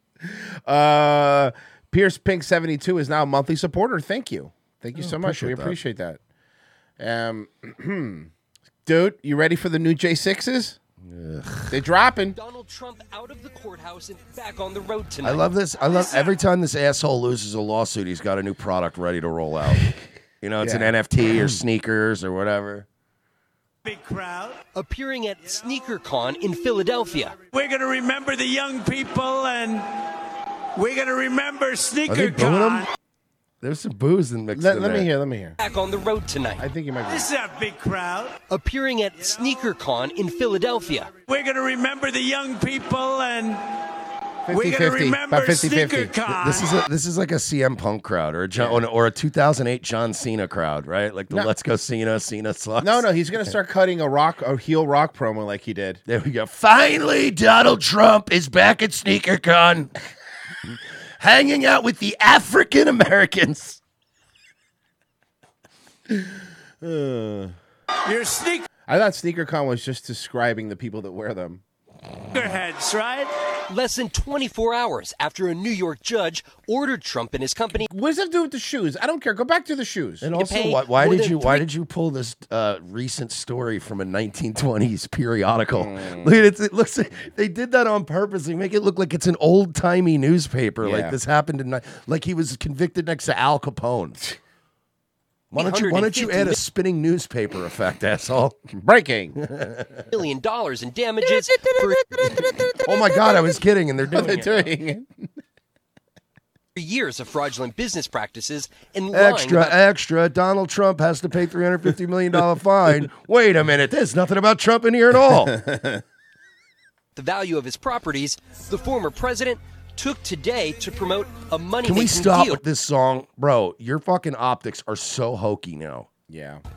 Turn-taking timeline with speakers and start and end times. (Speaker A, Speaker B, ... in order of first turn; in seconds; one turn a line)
Speaker A: 0.2-6.2
Speaker B: 4.9-5.8
Speaker A: 7.0-8.3
Speaker A: 8.8-10.8
Speaker B: 11.0-11.8
Speaker A: 11.7-12.4
Speaker C: 12.3-15.4
Speaker B: 15.2-19.8
Speaker B: 20.4-22.9
Speaker A: 20.6-20.9
Speaker D: 23.8-24.6
Speaker C: 24.7-27.4
Speaker D: 27.5-29.9
Speaker D: 30.8-32.9
Speaker B: 32.1-32.9
Speaker B: 33.6-35.1
Speaker A: 34.5-35.6
Speaker C: 35.6-36.6
Speaker A: 36.6-37.3
Speaker D: 37.1-38.4
Speaker C: 38.5-41.1
Speaker D: 41.3-43.6
Speaker A: 44.5-46.2
Speaker D: 44.5-46.7
Speaker B: 46.4-53.5
Speaker A: 48.5-48.8
Speaker A: 52.8-56.0
Speaker B: 56.0-59.9
Speaker B: 60.6-63.8
Speaker A: 66.8-67.5
Speaker D: 68.1-68.7
Speaker A: 68.9-71.6
Speaker D: 72.3-73.3
Speaker C: 73.7-77.9
Speaker A: 77.9-80.2
Speaker B: 80.2-94.2
Speaker C: 80.3-81.6
Speaker A: 85.8-86.3
Speaker A: 90.8-91.2
Speaker B: 95.5-98.6
Speaker C: 95.5-96.6
Speaker A: 98.8-99.4
Speaker B: 99.4-100.0
Speaker C: 100.1-102.5
Speaker B: 102.7-104.7
Speaker A: 104.1-105.3
Speaker C: 106.8-109.8
Speaker B: 109.1-115.5
Speaker A: 115.4-116.0
Speaker C: 117.2-122.6
Speaker B: 121.8-126.1
Speaker A: 126.3-126.6